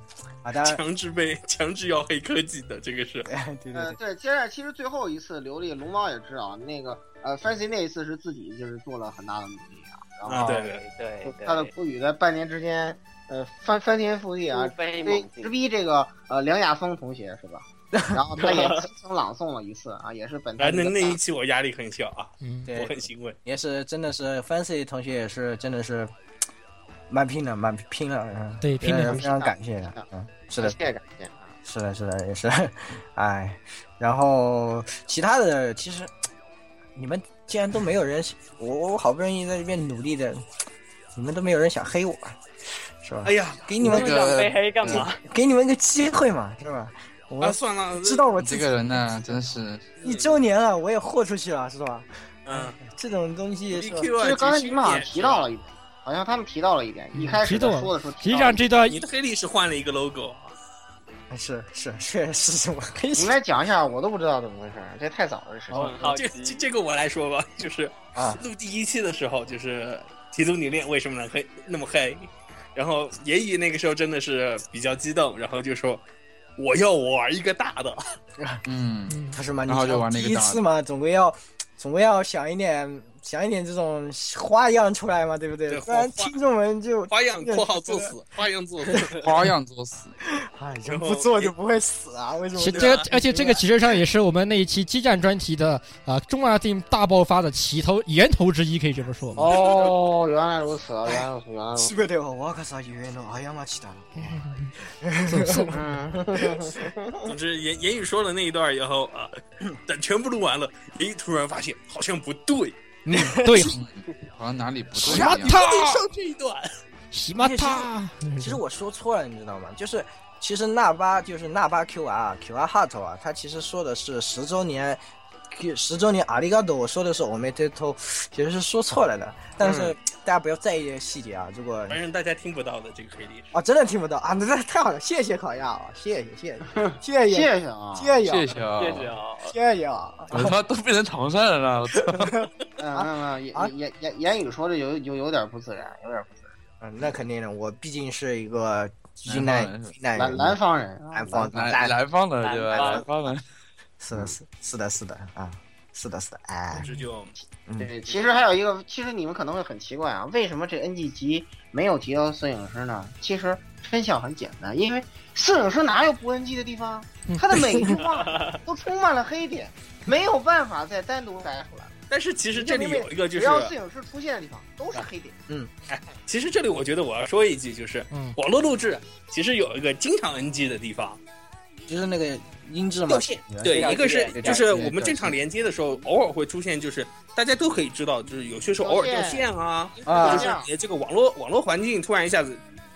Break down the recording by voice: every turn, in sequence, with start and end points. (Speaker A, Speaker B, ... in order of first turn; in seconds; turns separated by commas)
Speaker A: 0.4-0.8, Speaker B: 0.6-3.3, Speaker A: 3.2-4.0, Speaker C: 3.7-10.7, Speaker B: 10.3-10.8, Speaker D: 10.4-11.7, Speaker C: 11.2-21.2, Speaker D: 14.5-15.5, Speaker A: 17.9-18.2, Speaker D: 18.4-18.9, Speaker B: 20.6-23.4, Speaker E: 22.4-22.7, Speaker A: 22.7-26.1, Speaker A: 27.1-30.8, Speaker E: 28.6-29.2, Speaker C: 29.0-30.0, Speaker C: 30.6-31.5, Speaker A: 31.6-36.1, Speaker A: 36.9-40.4, Speaker A: 41.1-42.4, Speaker A: 43.0-44.2, Speaker B: 43.2-43.9, Speaker D: 43.8-45.2, Speaker F: 43.9-45.0, Speaker A: 44.9-48.8, Speaker B: 47.4-48.3, Speaker F: 48.4-49.9, Speaker B: 50.0-50.3, Speaker A: 50.0-54.1, Speaker B: 52.5-52.8, Speaker B: 53.7-55.5, Speaker C: 54.2-58.6, Speaker E: 57.1-59.0, Speaker B: 58.9-60.5, Speaker A: 61.3-63.4, Speaker C: 63.1-65.9, Speaker D: 65.7-66.6, Speaker B: 66.0-76.0, Speaker A: 68.1-68.4, Speaker B: 76.6-78.0, Speaker F: 78.7-80.6, Speaker E: 79.1-79.3, Speaker A: 79.3-88.1, Speaker B: 85.7-86.3, Speaker B: 87.1-89.2, Speaker A: 88.9-89.3, Speaker F: 89.2-90.1, Speaker A: 90.3-93.6, Speaker B: 90.9-91.5, Speaker E: 92.6-99.4, Speaker B: 92.6-93.1, Speaker C: 99.3-101.9, Speaker B: 99.6-99.9, Speaker A: 101.8-106.7, Speaker E: 104.2-104.7, Speaker E: 105.2-105.7, Speaker C: 105.7-107.3, Speaker B: 107.3-112.8, Speaker E: 113.0-113.8, Speaker A: 113.1-113.6, Speaker F: 113.7-115.6, Speaker B: 115.0-116.7, Speaker E: 115.0-116.0, Speaker E: 117.1-118.6, Speaker A: 117.4-132.0, Speaker C: 129.6-129.9, Speaker B: 131.9-133.5, Speaker A: 133.5-138.5, Speaker C: 136.7-138.1, Speaker F: 138.2-139.1, Speaker D: 138.8-139.5, Speaker A: 139.5-140.5, Speaker F: 140.3-142.3, Speaker A: 142.3-143.7, Speaker C: 142.8-146.5, Speaker A: 146.8-150.6, Speaker F: 149.3-149.9, Speaker C: 150.1-151.8, Speaker A: 151.1-151.9, Speaker F: 151.5-153.4, Speaker D: 152.4-153.1, Speaker A: 152.7-153.1, Speaker A: 154.0-156.9, Speaker B: 156.8-157.3, Speaker C: 157.8-171.9, Speaker A: 167.5-168.0, Speaker D: 168.0-168.6, Speaker B: 172.1-173.7, Speaker C: 172.5-175.4, Speaker B: 175.9-181.2, Speaker E: 178.1-178.3, Speaker A: 181.9-185.4, Speaker B: 183.6-192.6, Speaker D: 183.6-184.7, Speaker C: 188.8-189.5, Speaker C: 190.0-190.7, Speaker A: 190.1-190.5